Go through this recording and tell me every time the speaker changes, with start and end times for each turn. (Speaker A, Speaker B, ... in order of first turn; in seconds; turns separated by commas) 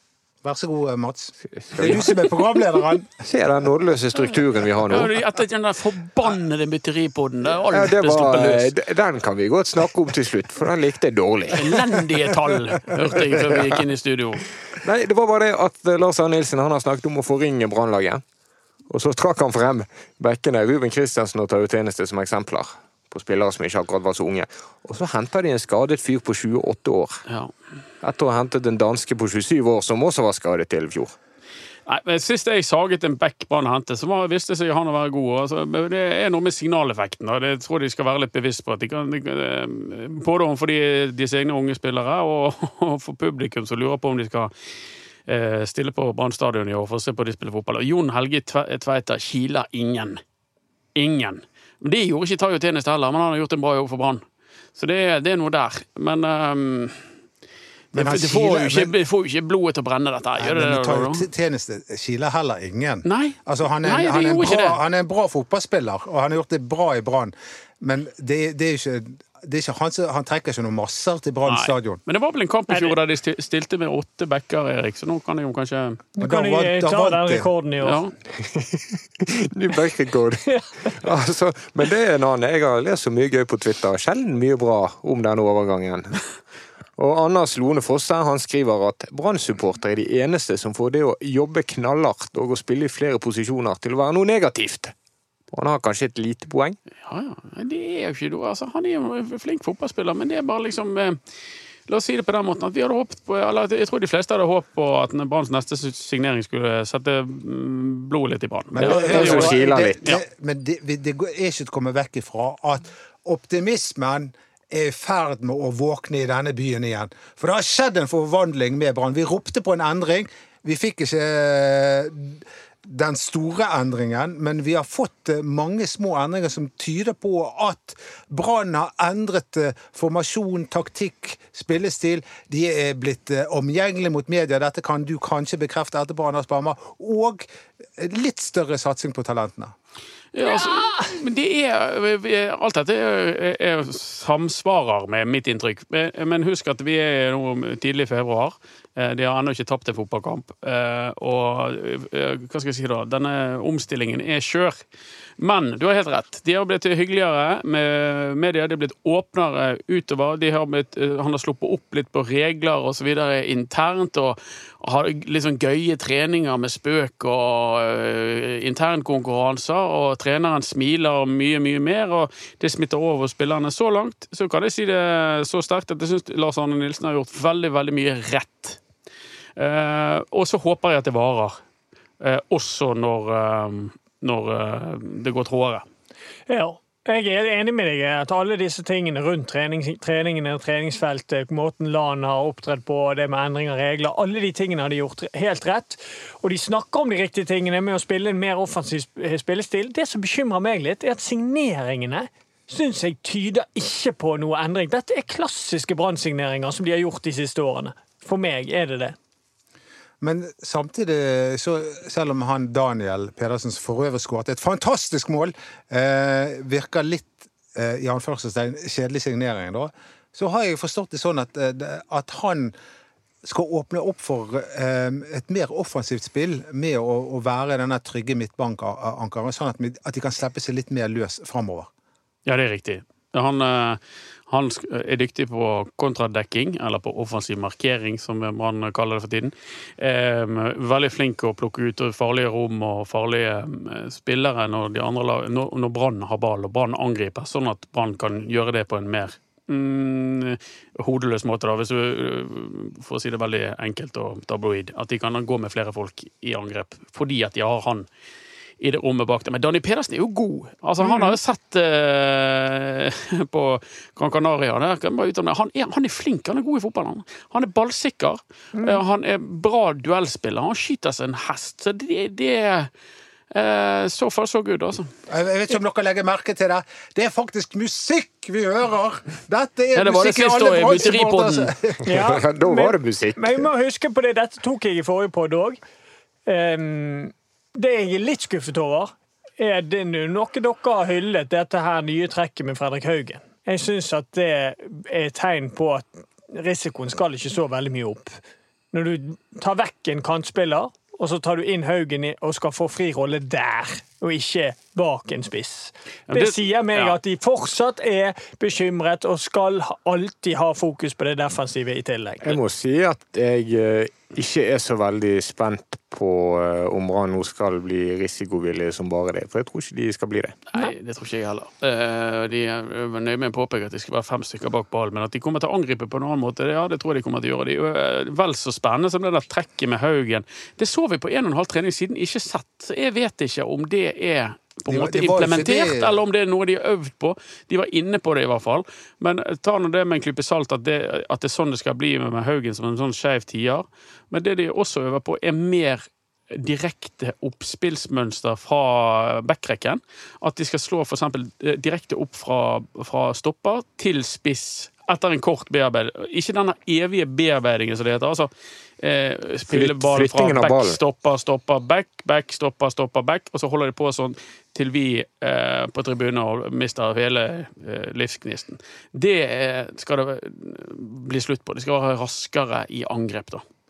Speaker A: 0.4-3.1, Speaker B: 1.6-2.2, Speaker B: 3.2-5.1, Speaker C: 4.8-8.8, Speaker B: 7.6-12.1, Speaker C: 11.5-14.5, Speaker B: 13.2-13.8, Speaker B: 14.7-18.2, Speaker B: 18.9-27.2, Speaker B: 28.0-31.1, Speaker C: 31.9-44.5, Speaker C: 45.3-50.2, Speaker C: 51.0-54.2, Speaker C: 54.8-57.1, Speaker A: 57.9-58.9, Speaker C: 57.9-61.3, Speaker A: 60.4-72.0, Speaker C: 63.1-64.8, Speaker C: 71.5-76.0, Speaker D: 72.7-73.0, Speaker D: 76.2-78.0, Speaker A: 76.2-77.5, Speaker C: 77.8-78.1, Speaker B: 78.4-86.3, Speaker B: 87.0-94.9, Speaker B: 95.5-96.8, Speaker C: 97.0-101.2, Speaker C: 101.9-110.2, Speaker A: 108.7-139.7, Speaker B: 108.8-110.1, Speaker C: 140.3-154.8, Speaker D: 140.4-141.2, Speaker C: 155.4-178.8, Speaker C: 179.6-181.6, Speaker C: 182.2-185.8, Speaker D: 186.5-209.2, Speaker A: 210.2-222.7, Speaker A: 223.4-231.9, Speaker C: 232.5-258.1, Speaker C: 258.8-272.9, Speaker D: 261.0-261.4, Speaker D: 268.8-269.0, Speaker C: 273.5-275.1, Speaker A: 275.3-282.1, Speaker C: 279.9-281.7, Speaker D: 282.1-285.8, Speaker B: 282.1-283.7, Speaker D: 286.5-298.4, Speaker D: 298.9-312.6, Speaker C: 306.3-307.2, Speaker B: 312.4-320.6, Speaker C: 320.7-373.6, Speaker A: 334.9-336.2, Speaker B: 359.7-361.0